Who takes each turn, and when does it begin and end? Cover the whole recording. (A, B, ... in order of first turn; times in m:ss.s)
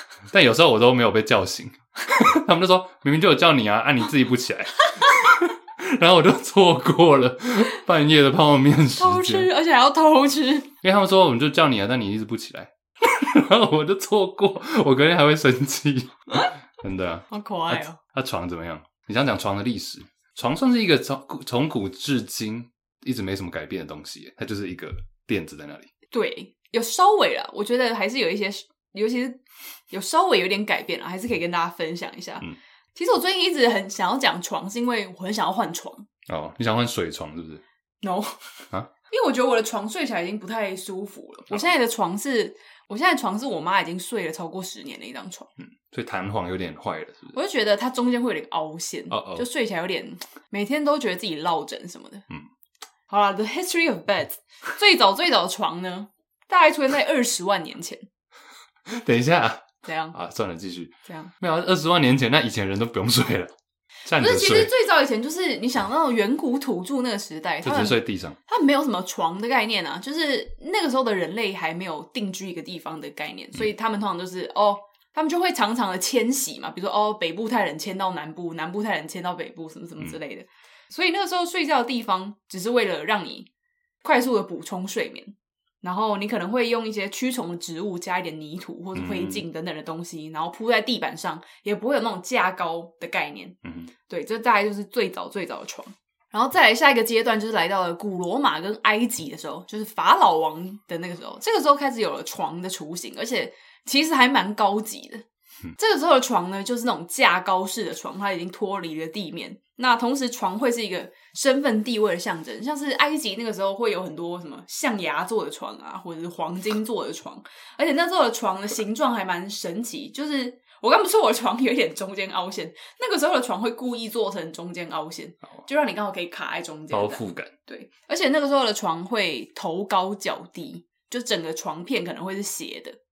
0:00.3-0:09.5 A
0:09.0-0:10.7 B
0:10.8-0:25.9 A
0:17.3-0:18.0 B
0:26.1-0:36.1 B
0:36.3-0:37.6 A
0:38.0-0:38.4 B
0:39.1-0:45.5 B
0:45.6-0:47.4 A
0:47.3-0:52.3 B
0:49.1-0:49.5 A
0:53.1-0:58.0 B
0:58.9-1:03.5 A
0:59.8-1:00.2 B
1:01.1-1:01.3 B
1:04.0-1:04.7 A
1:04.2-1:23.5 B
1:07.6-1:08.4 A
1:24.0-1:45.2 B
1:29.0-1:29.4 A
1:33.6-1:33.9 A
1:45.8-2:13.0 B
2:06.9-2:07.5 A